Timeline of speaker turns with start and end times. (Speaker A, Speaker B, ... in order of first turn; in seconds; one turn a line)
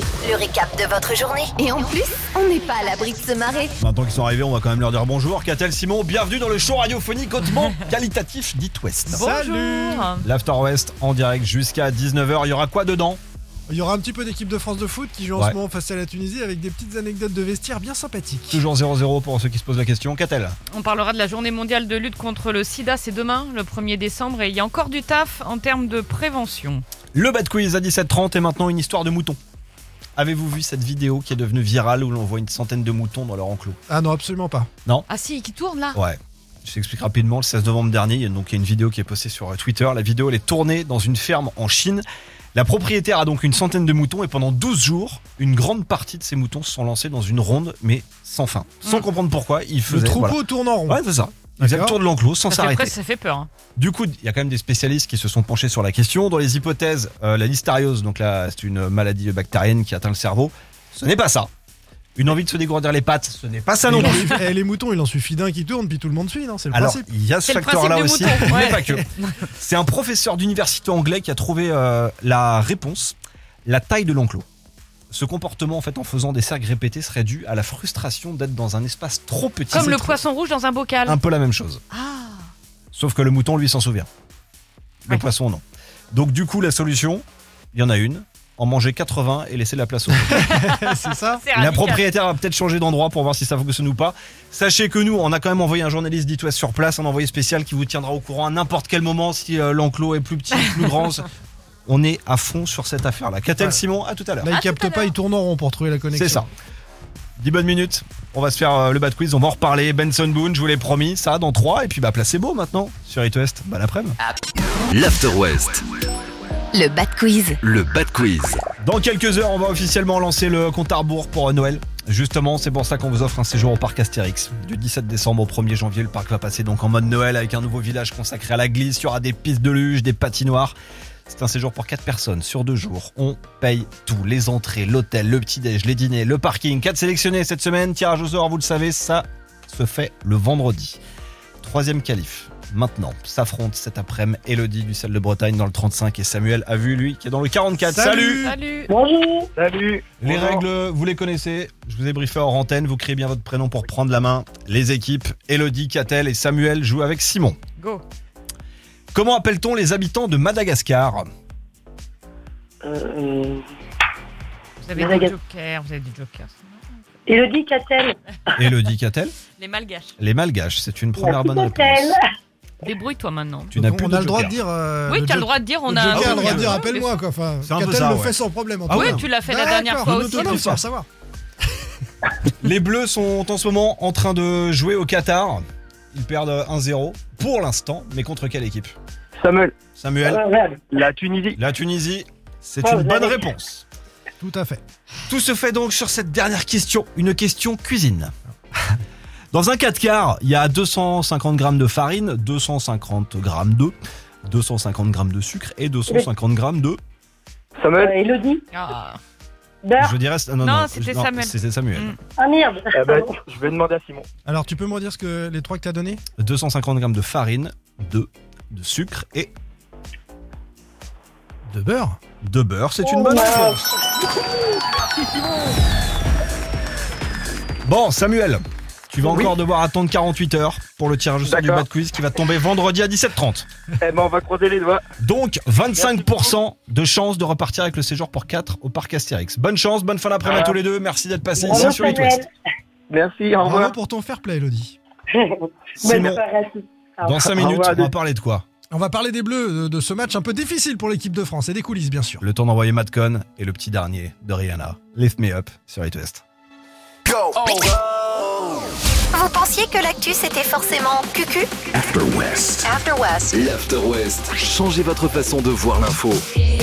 Speaker A: 0.2-3.7
Speaker B: 3.8-9.2
Speaker C: 9.1-10.1
Speaker D: 9.1-10.2
Speaker B: 10.2-13.2
Speaker C: 13.7-18.6
Speaker B: 18.5-20.6
Speaker D: 20.7-26.8
Speaker B: 27.1-29.4
Speaker B: 30.1-33.8
Speaker C: 33.9-34.7
Speaker D: 35.1-36.0
Speaker B: 35.9-42.0
Speaker B: 42.5-53.0
Speaker C: 49.9-51.0
Speaker C: 51.6-52.0
Speaker D: 52.5-53.5
Speaker B: 53.8-61.5
Speaker B: 62.1-64.4
Speaker C: 63.9-67.1
Speaker D: 64.0-64.4
Speaker B: 66.7-74.5
Speaker D: 67.5-69.5
Speaker C: 68.5-69.0
Speaker B: 75.1-80.2
Speaker D: 79.7-81.2
Speaker B: 81.0-81.8
Speaker D: 81.9-82.5
Speaker B: 82.9-84.1
Speaker B: 85.0-90.5
Speaker C: 90.2-91.4
Speaker D: 90.4-92.1
Speaker B: 91.5-101.3
Speaker B: 101.9-104.5
Speaker C: 104.4-106.5
Speaker D: 104.5-105.1
Speaker B: 106.1-106.5
Speaker B: 107.4-114.2
Speaker E: 114.9-115.8
Speaker A: 116.7-117.6
Speaker E: 117.6-118.6
Speaker B: 118.8-130.8
Speaker B: 131.3-141.0
Speaker B: 141.6-148.5
Speaker C: 147.8-148.6
Speaker D: 148.4-148.9
Speaker F: 148.9-149.5
Speaker G: 149.6-150.6
Speaker B: 150.2-157.6
Speaker D: 157.8-158.0
Speaker B: 159.1-161.3
Speaker F: 162.8-163.6
Speaker D: 164.8-167.1
Speaker F: 164.9-165.3
Speaker F: 167.3-168.2
Speaker B: 168.6-169.3
Speaker D: 169.6-170.2
Speaker B: 170.2-172.1
Speaker F: 171.2-172.2
Speaker D: 172.8-173.7
Speaker B: 173.7-174.6
Speaker C: 173.7-181.1
Speaker D: 175.1-177.1
Speaker B: 176.1-176.8
Speaker B: 177.6-179.2
Speaker D: 178.9-180.8
Speaker B: 180.1-180.8
Speaker B: 182.4-188.9
Speaker G: 189.4-189.7
Speaker B: 190.0-190.4
Speaker F: 190.3-190.8
Speaker G: 190.9-191.6
Speaker B: 191.6-193.8
Speaker F: 192.8-193.4
Speaker C: 194.4-194.8
Speaker B: 195.3-198.3
Speaker B: 199.5-203.9
Speaker B: 204.4-207.0
Speaker G: 207.8-208.2
Speaker F: 208.0-208.6
Speaker D: 208.7-209.2
Speaker F: 209.8-210.1
Speaker B: 210.0-212.1
Speaker D: 210.6-212.2
Speaker F: 212.4-213.4
Speaker G: 212.9-214.2
Speaker C: 214.4-216.2
Speaker B: 216.4-219.5
Speaker C: 221.7-222.2
Speaker B: 222.4-223.9
Speaker F: 223.0-223.8
Speaker B: 227.8-233.7
Speaker G: 229.2-229.5
Speaker G: 231.4-231.8
Speaker G: 234.0-235.0
Speaker B: 235.2-242.4
Speaker G: 235.9-236.5
Speaker G: 240.4-240.8
Speaker G: 241.6-241.9
Speaker F: 241.7-242.5
Speaker G: 243.1-243.9
Speaker C: 243.6-244.9
Speaker F: 245.3-247.4
Speaker B: 246.0-246.4
Speaker B: 247.2-248.6
Speaker G: 247.3-248.1
Speaker C: 248.9-252.4
Speaker B: 252.4-256.4
Speaker A: 259.3-261.7
Speaker A: 262.8-263.8
Speaker E: 263.5-266.4